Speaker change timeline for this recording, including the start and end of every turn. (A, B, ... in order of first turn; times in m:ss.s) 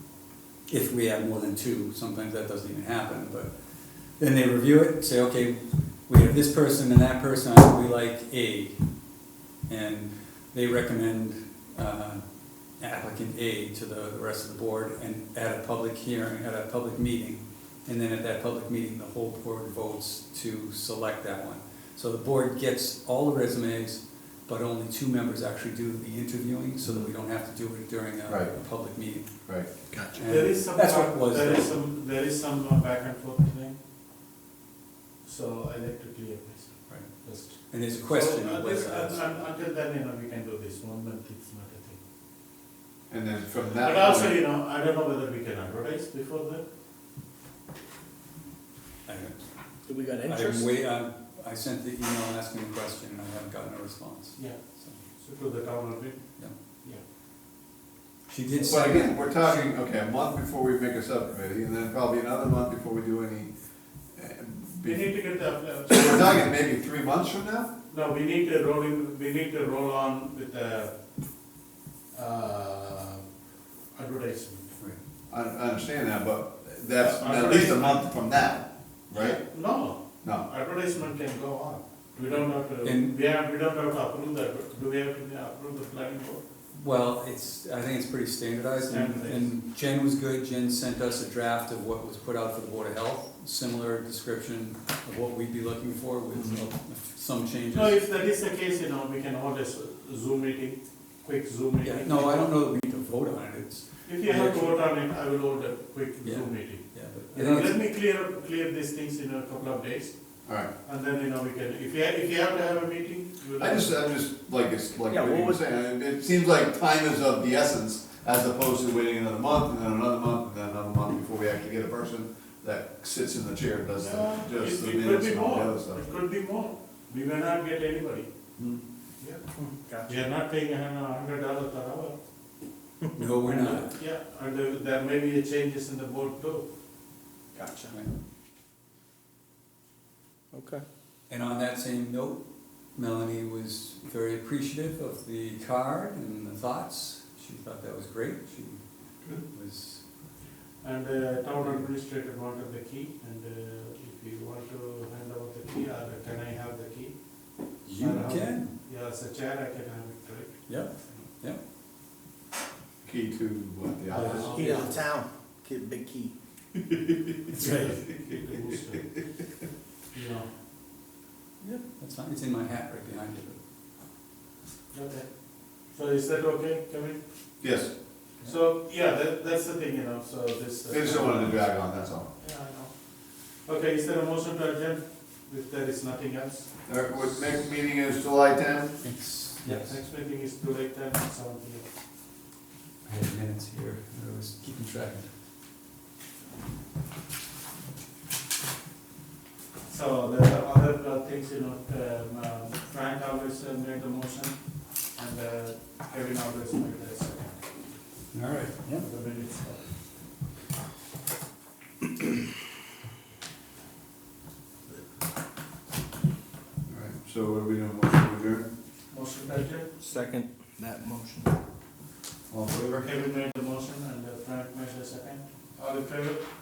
0:00.7-0:03.5 A
0:04.2-0:08.9 A
0:09.7-0:12.2 A
0:12.8-0:31.7 A
0:28.3-0:28.5 B
0:29.9-0:30.2 C
0:30.2-0:33.8 D
0:35.2-0:42.0 D
0:36.9-0:39.2 A
0:43.1-0:44.4 B
0:43.8-0:46.6 D
0:49.0-0:49.4 A
0:49.8-0:50.7 C
0:50.1-0:55.0 A
0:54.4-0:57.0 D
0:58.3-0:59.1 A
0:58.6-1:03.5 B
1:04.1-1:05.3 B
1:04.8-1:06.4 D
1:05.9-1:07.7 B
1:07.9-1:10.9 D
1:12.1-1:13.2 D
1:13.9-1:14.7 D
1:15.3-1:19.4 B
1:17.0-1:18.0 D
1:19.1-1:26.4 D
1:22.8-1:23.1 A
1:26.7-1:38.0 A
1:28.8-1:29.5 D
1:37.7-1:42.5 D
1:41.8-1:44.7 A
1:44.0-1:50.3 D
1:46.2-1:47.8 A
1:50.8-1:54.0 D
1:53.6-2:06.0 B
1:55.1-1:55.6 C
2:04.0-2:08.3 D
2:08.6-2:08.8 B
2:09.6-2:10.1 C
2:10.0-2:12.2 D
2:13.1-2:13.9 A
2:13.4-2:16.6 D
2:17.5-2:17.9 C
2:20.5-2:20.8 C
2:21.3-2:22.4 A
2:22.9-2:30.3 A
2:30.8-2:37.2 D
2:31.6-2:31.9 A
2:37.8-2:38.7 A
2:37.8-2:41.2 D
2:40.7-2:41.6 A
2:43.0-2:44.9 B
2:44.1-2:45.0 D
2:44.2-2:46.3 C
2:47.5-2:48.0 A
2:47.6-2:49.1 D
2:50.1-2:50.5 D
2:52.0-2:53.6 A
2:54.9-2:55.3 D
2:55.9-2:57.2 D
2:57.6-2:57.9 B
2:58.4-3:01.7 D
3:00.9-3:02.2 B
3:02.4-3:02.9 D
3:03.6-3:06.8 D
3:06.9-3:09.0 B
3:09.0-3:10.0 A
3:09.6-3:11.9 D
3:13.0-3:15.3 A
3:19.9-3:27.6 D
3:28.3-3:29.1 A
3:28.9-3:29.9 D
3:36.9-3:38.7 B
3:39.1-3:39.9 D
3:40.0-3:41.6 C
3:42.5-3:43.0 B
3:42.9-3:46.4 D